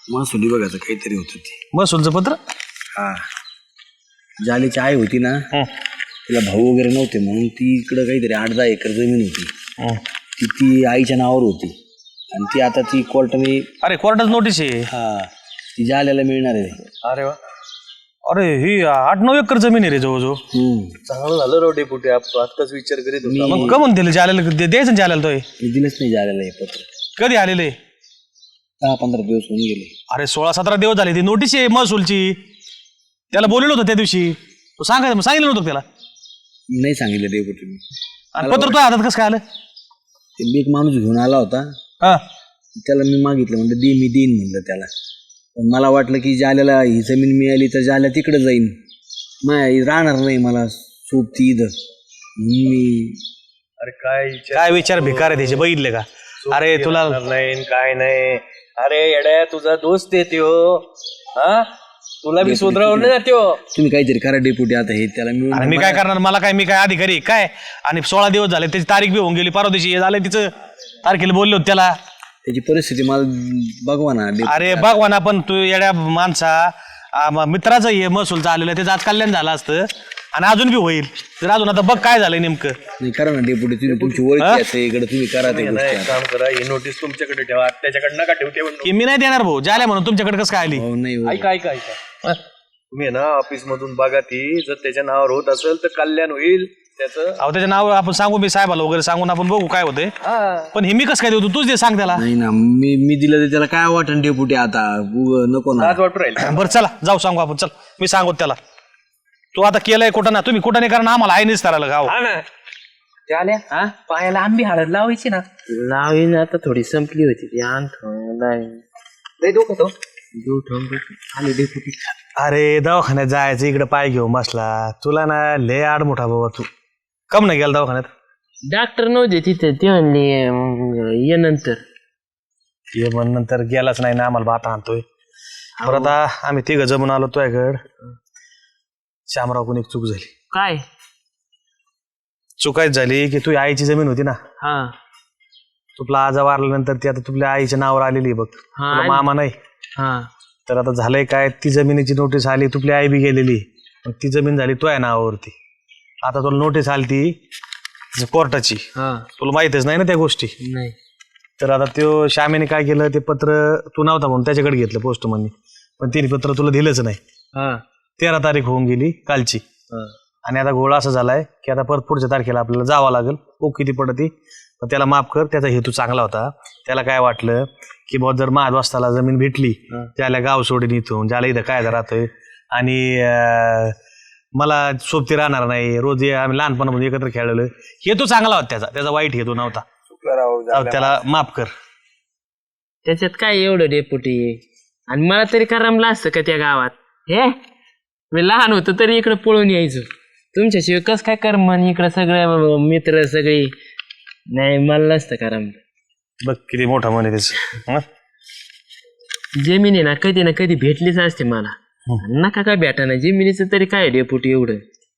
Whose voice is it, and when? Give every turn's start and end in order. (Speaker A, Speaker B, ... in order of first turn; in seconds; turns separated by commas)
Speaker A: 0.1-1.6, Speaker B: 1.7-2.4, Speaker A: 3.0-3.2, Speaker A: 4.4-5.5, Speaker A: 6.3-9.5, Speaker A: 10.4-11.8, Speaker A: 12.3-13.7, Speaker B: 13.8-14.9, Speaker A: 14.9-16.8, Speaker C: 17.0-17.4, Speaker B: 18.3-20.4, Speaker A: 20.5-21.0, Speaker C: 21.1-23.8, Speaker A: 23.2-23.8, Speaker B: 23.4-25.5, Speaker A: 25.6-26.9, Speaker B: 27.2-27.8, Speaker A: 28.8-29.9, Speaker B: 30.1-32.4, Speaker B: 33.3-35.9, Speaker A: 36.7-37.8, Speaker B: 38.4-39.4, Speaker A: 38.4-38.8, Speaker A: 40.4-41.7, Speaker A: 42.8-44.9, Speaker A: 45.6-48.8, Speaker A: 49.4-51.8, Speaker A: 52.4-53.2, Speaker C: 53.8-55.6, Speaker B: 54.5-57.2, Speaker C: 56.4-61.7, Speaker C: 62.2-63.6, Speaker A: 62.4-63.2, Speaker A: 63.7-66.0, Speaker B: 65.5-70.5, Speaker B: 71.0-72.0, Speaker A: 72.5-75.0, Speaker B: 74.5-82.8, Speaker A: 83.0-86.2, Speaker C: 83.9-84.3, Speaker B: 84.4-84.7, Speaker C: 85.4-88.9, Speaker B: 88.8-90.8, Speaker A: 90.7-91.5, Speaker C: 91.2-92.0, Speaker C: 92.9-97.4, Speaker B: 97.4-100.1, Speaker C: 100.2-100.7, Speaker B: 100.7-102.2, Speaker A: 102.2-106.0, Speaker C: 105.8-106.8, Speaker B: 106.4-108.6, Speaker B: 109.5-112.2, Speaker C: 112.1-112.5, Speaker C: 113.3-115.4, Speaker D: 113.7-114.0, Speaker D: 115.7-118.8, Speaker C: 119.4-119.9, Speaker D: 120.4-121.6, Speaker C: 121.6-121.9, Speaker B: 122.4-126.7, Speaker B: 127.3-128.1, Speaker D: 128.7-131.8, Speaker B: 132.9-135.1, Speaker D: 135.8-136.2, Speaker B: 135.8-137.8, Speaker B: 139.3-140.3, Speaker D: 140.5-140.8, Speaker B: 142.6-144.4, Speaker D: 144.6-144.9, Speaker B: 146.0-149.6, Speaker D: 148.8-149.2, Speaker D: 150.0-150.3, Speaker B: 150.7-155.6, Speaker B: 156.2-157.4, Speaker B: 158.2-158.8, Speaker D: 159.0-159.3, Speaker B: 159.4-160.6, Speaker D: 160.6-161.0, Speaker B: 161.6-167.2, Speaker D: 167.6-167.8, Speaker B: 168.2-169.6, Speaker B: 170.4-184.0, Speaker B: 184.6-189.9, Speaker A: 190.1-191.2, Speaker B: 190.7-191.7, Speaker D: 193.1-197.6, Speaker D: 198.3-203.7, Speaker D: 204.5-205.8, Speaker B: 206.4-208.1, Speaker D: 209.6-214.8